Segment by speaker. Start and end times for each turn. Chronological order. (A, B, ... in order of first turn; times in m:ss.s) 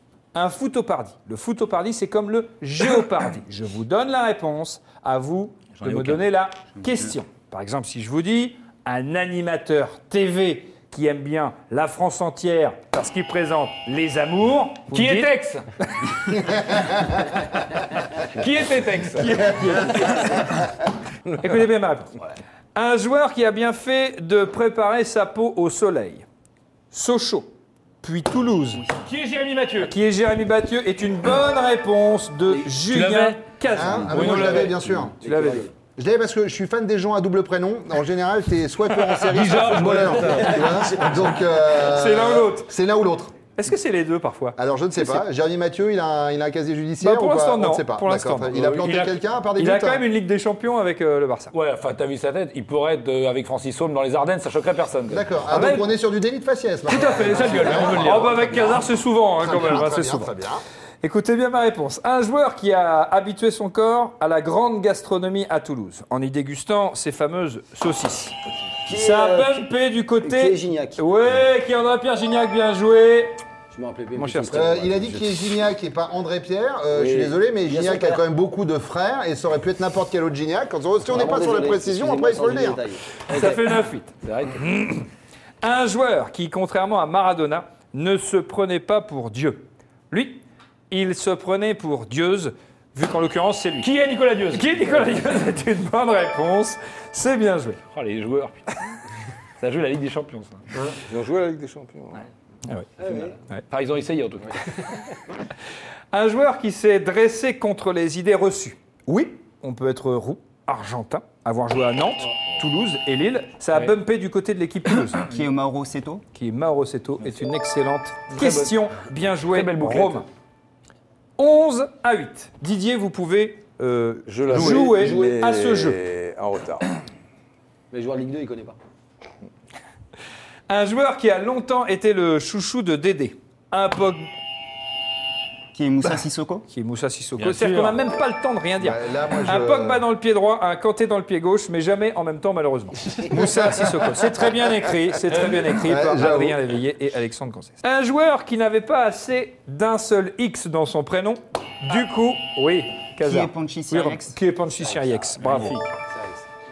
0:00.3-0:15.3 A
0:05.8-0:06.2 B
0:14.9-0:15.6 B
0:18.2-0:20.0 B
0:19.2-0:20.5 A
0:21.4-0:22.1 A
0:22.7-0:26.2 A
0:26.9-0:27.5 A
0:28.0-0:28.8 A
0:29.0-0:29.9 B
0:29.8-0:35.7 A
0:32.9-0:33.4 B
0:33.7-0:35.2 C
0:33.8-0:35.7 D
0:34.1-0:34.8 B
0:36.0-0:43.3 C
0:39.1-0:41.0 B
0:40.2-0:41.2 D
0:41.7-0:42.7 A
0:43.5-0:44.6 A
0:44.6-0:50.0 C
0:47.0-0:51.5 A
0:48.5-0:48.8 D
0:48.8-0:49.1 B
0:51.5-0:55.8 B
0:55.1-0:58.8 C
0:55.5-0:55.8 A
0:56.9-0:58.6 B
0:57.8-1:00.3 A
0:59.4-1:00.6 C
1:01.0-1:08.3 A
1:08.8-1:09.7 D
1:08.9-1:13.4 A
1:10.2-1:11.0 D
1:13.7-1:15.5 D
1:14.1-1:14.7 A
1:14.5-1:22.8 C
1:16.9-1:18.2 D
1:21.0-1:23.6 D
1:23.3-1:25.1 A
1:24.2-1:24.6 B
1:25.6-1:33.9 A
1:33.8-1:34.6 B
1:34.5-1:37.8 A
1:37.9-1:38.8 B
1:39.6-1:40.6 B
1:40.9-1:42.2 E
1:43.0-1:43.4 D
1:43.7-1:45.0 B
1:46.1-1:55.2 A
1:55.3-1:56.2 F
1:56.3-2:00.3 A
1:58.3-1:58.8 B
1:59.5-2:00.2 B
2:01.4-2:06.0 A
2:04.3-2:06.8 E
2:04.5-2:05.4 D
2:07.9-2:08.8 D
2:10.7-2:14.3 A
2:15.7-2:16.6 F
2:16.7-2:35.8 A
2:17.4-2:18.0 B
2:18.8-2:20.0 C
2:23.4-2:23.7 C
2:25.8-2:26.6 C
2:33.2-2:34.4 F
2:34.8-2:35.2 D
2:35.5-2:35.8 B
2:36.0-2:36.4 D